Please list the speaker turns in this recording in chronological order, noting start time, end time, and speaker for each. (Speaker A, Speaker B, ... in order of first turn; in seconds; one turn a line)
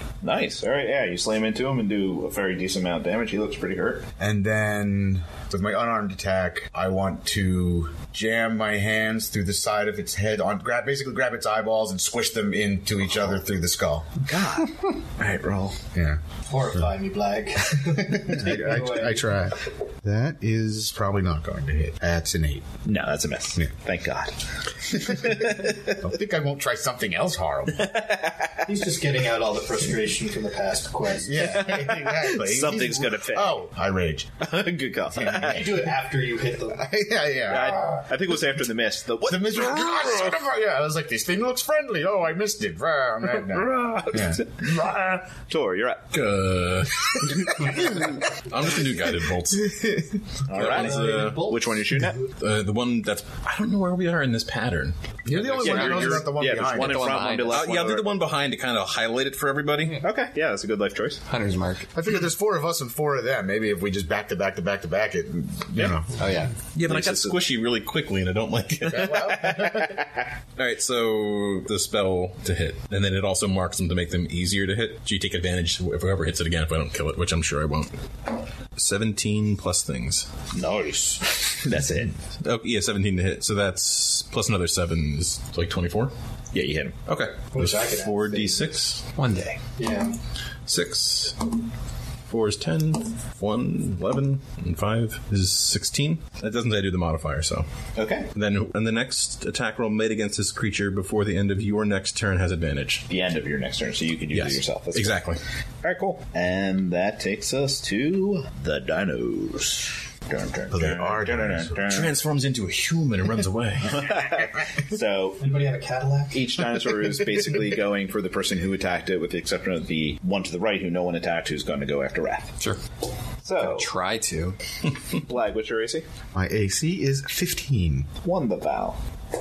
Speaker A: 0.2-4.1
Speaker B: 4.2-14.1
Speaker A: 14.2-15.8
Speaker B: 15.9-16.2
Speaker C: 16.5-19.3
Speaker B: 18.0-22.8
Speaker A: 22.9-26.0
Speaker B: 25.1-28.0
Speaker A: 27.8-28.7
Speaker C: 28.7-31.9
Speaker B: 31.1-34.4
Speaker A: 31.6-33.6
Speaker A: 34.4-35.7
Speaker B: 35.1-35.9
Speaker C: 35.4-36.9
Speaker B: 36.7-38.1
Speaker A: 37.5-40.4
Speaker B: 39.3-45.2
Speaker A: 43.4-46.0
Speaker D: 46.1-49.8
Speaker B: 49.6-50.1
Speaker A: 50.5-52.2
Speaker D: 50.5-51.4
Speaker C: 50.6-52.0
Speaker D: 52.4-55.0
Speaker B: 55.3-57.2
Speaker E: 55.3-57.8
Speaker A: 55.6-58.1
Speaker D: 57.5-60.0
Speaker A: 60.0-61.2
Speaker E: 61.3-61.9
Speaker B: 61.9-66.1
Speaker E: 66.2-66.5
Speaker D: 66.7-69.7
Speaker A: 66.8-67.4
Speaker B: 68.9-70.0
Speaker A: 69.0-70.2
Speaker D: 70.6-77.9
Speaker D: 78.8-80.3
Speaker A: 80.5-82.2
Speaker D: 82.4-86.1
Speaker A: 86.5-87.0
Speaker D: 87.1-89.0
Speaker C: 87.5-88.8
Speaker E: 89.2-89.6
Speaker C: 89.8-90.1
Speaker D: 90.7-91.5
Speaker D: 92.3-97.7
Speaker A: 98.0-98.3
Speaker D: 98.3-103.1
Speaker A: 103.1-105.2
Speaker D: 104.3-105.4
Speaker A: 105.8-112.1
Speaker B: 110.7-111.9
Speaker D: 111.9-114.2
Speaker A: 113.9-115.4
Speaker C: 115.4-116.6
Speaker A: 116.3-122.5
Speaker A: 123.4-123.9
Speaker E: 123.6-124.6
Speaker A: 125.2-126.0
Speaker B: 126.3-128.1
Speaker A: 128.2-129.0